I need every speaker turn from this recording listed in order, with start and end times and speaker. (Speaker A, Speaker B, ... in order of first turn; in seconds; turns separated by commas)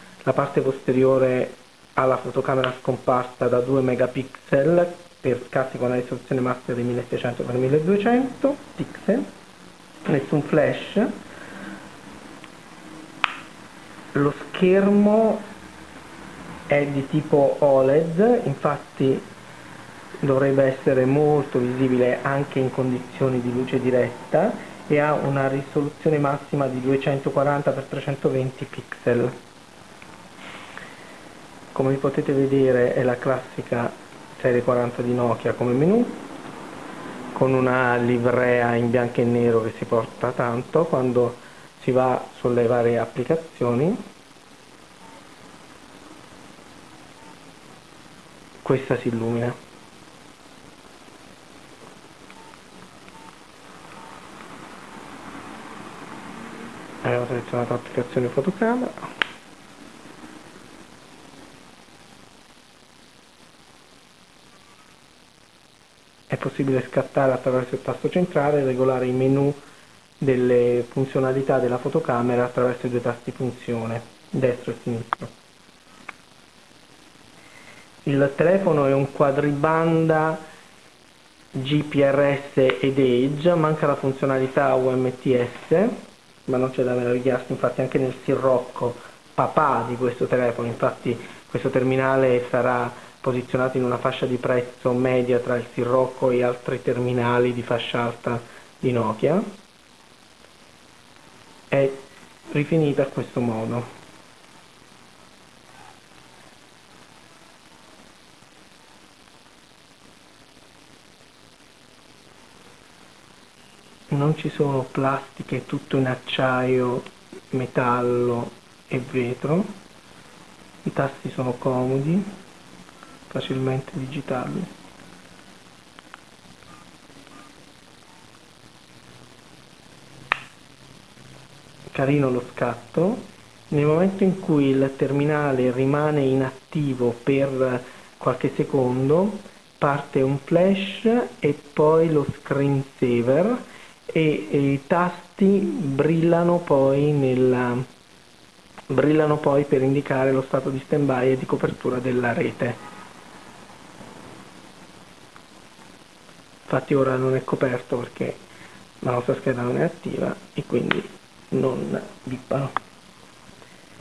Speaker A: 0.2-9.3, Speaker A: 10.1-11.1, Speaker A: 14.1-15.4, Speaker A: 16.7-19.2, Speaker A: 20.2-29.3, Speaker A: 31.7-36.2, Speaker A: 37.3-44.0, Speaker A: 48.6-49.6, Speaker A: 57.0-59.0, Speaker A: 66.3-69.6, Speaker A: 70.2-75.3, Speaker A: 78.0-80.4, Speaker A: 81.5-85.9, Speaker A: 86.5-99.5, Speaker A: 101.7-103.9, Speaker A: 114.1-119.7, Speaker A: 120.8-122.2, Speaker A: 123.3-124.7, Speaker A: 131.9-147.8, Speaker A: 148.9-152.8, Speaker A: 156.7-158.4, Speaker A: 159.0-162.7